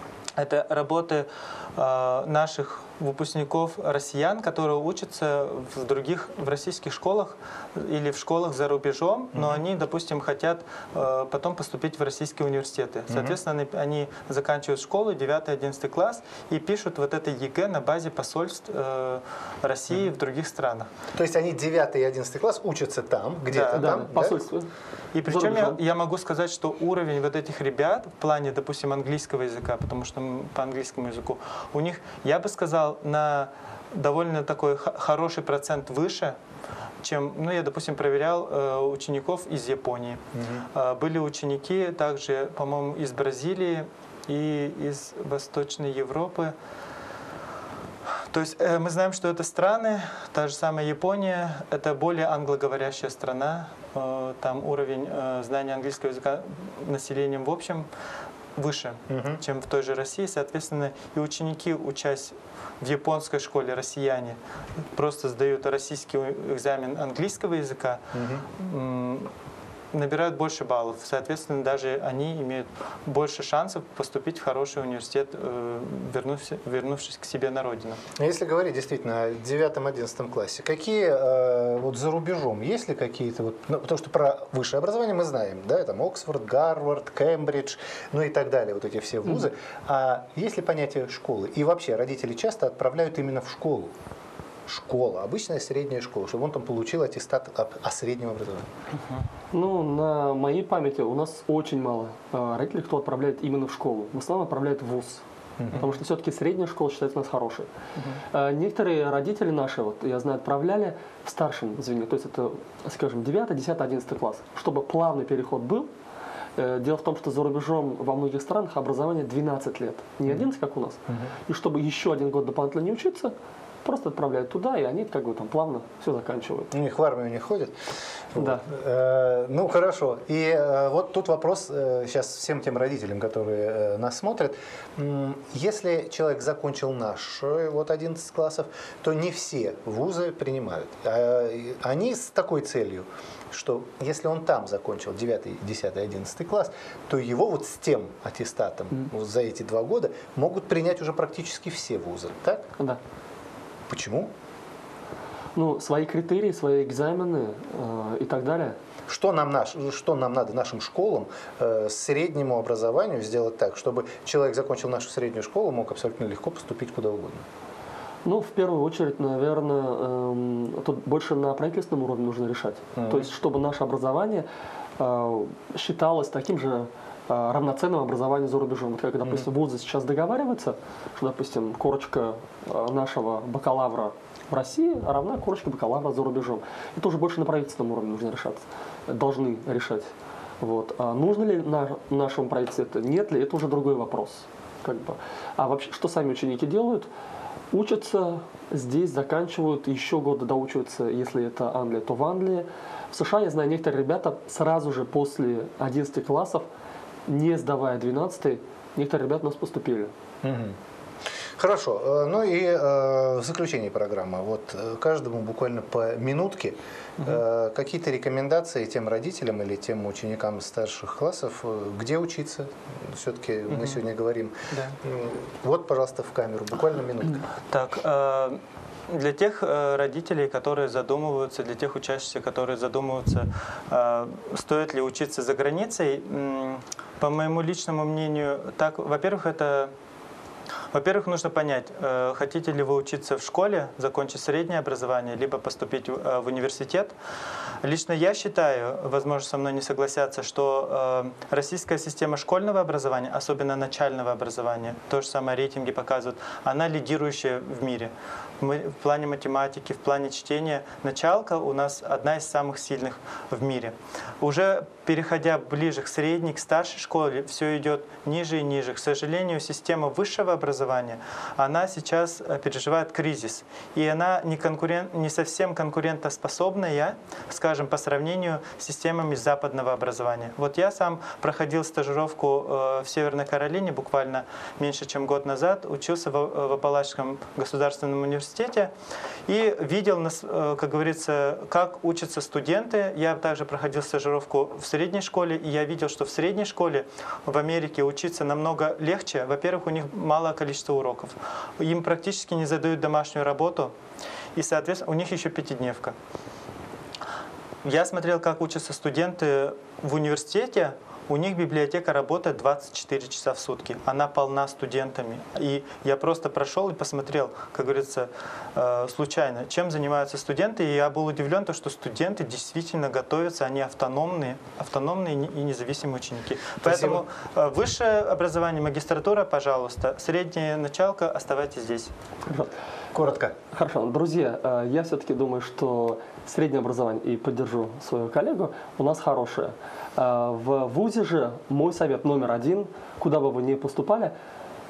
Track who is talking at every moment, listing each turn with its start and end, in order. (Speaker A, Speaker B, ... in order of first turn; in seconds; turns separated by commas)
Speaker A: 0.4-20.9, Speaker B: 9.3-9.6, Speaker B: 13.1-13.4, Speaker B: 21.1-24.4, Speaker A: 23.5-24.0, Speaker C: 23.7-24.7, Speaker A: 25.1-36.4, Speaker C: 25.2-25.8, Speaker A: 37.0-46.5, Speaker B: 40.3-40.7, Speaker A: 48.3-57.9, Speaker A: 58.5-64.4, Speaker B: 59.1-59.4, Speaker A: 64.9-69.3, Speaker B: 68.1-68.5, Speaker A: 69.9-78.0, Speaker B: 78.2-93.9, Speaker B: 94.7-98.7, Speaker C: 99.5-107.7, Speaker B: 105.6-105.9, Speaker C: 108.3-115.9, Speaker C: 116.5-126.7, Speaker B: 126.7-127.8, Speaker B: 128.3-152.7, Speaker C: 128.4-128.7, Speaker B: 153.9-154.3, Speaker C: 155.6-158.8, Speaker B: 159.1-167.4, Speaker C: 168.2-174.5, Speaker B: 172.9-173.2, Speaker C: 175.0-190.1, Speaker C: 190.6-197.1, Speaker C: 197.7-206.7, Speaker C: 207.3-210.1, Speaker B: 210.4-210.8, Speaker B: 211.6-227.4, Speaker A: 223.7-224.0, Speaker A: 224.7-224.9, Speaker A: 227.7-239.9, Speaker A: 240.9-247.1, Speaker A: 247.8-288.9, Speaker A: 289.5-303.9, Speaker A: 304.6-306.1, Speaker A: 307.8-332.1, Speaker B: 326.8-327.2, Speaker C: 332.5-332.7, Speaker B: 333.1-333.5, Speaker C: 333.7-344.3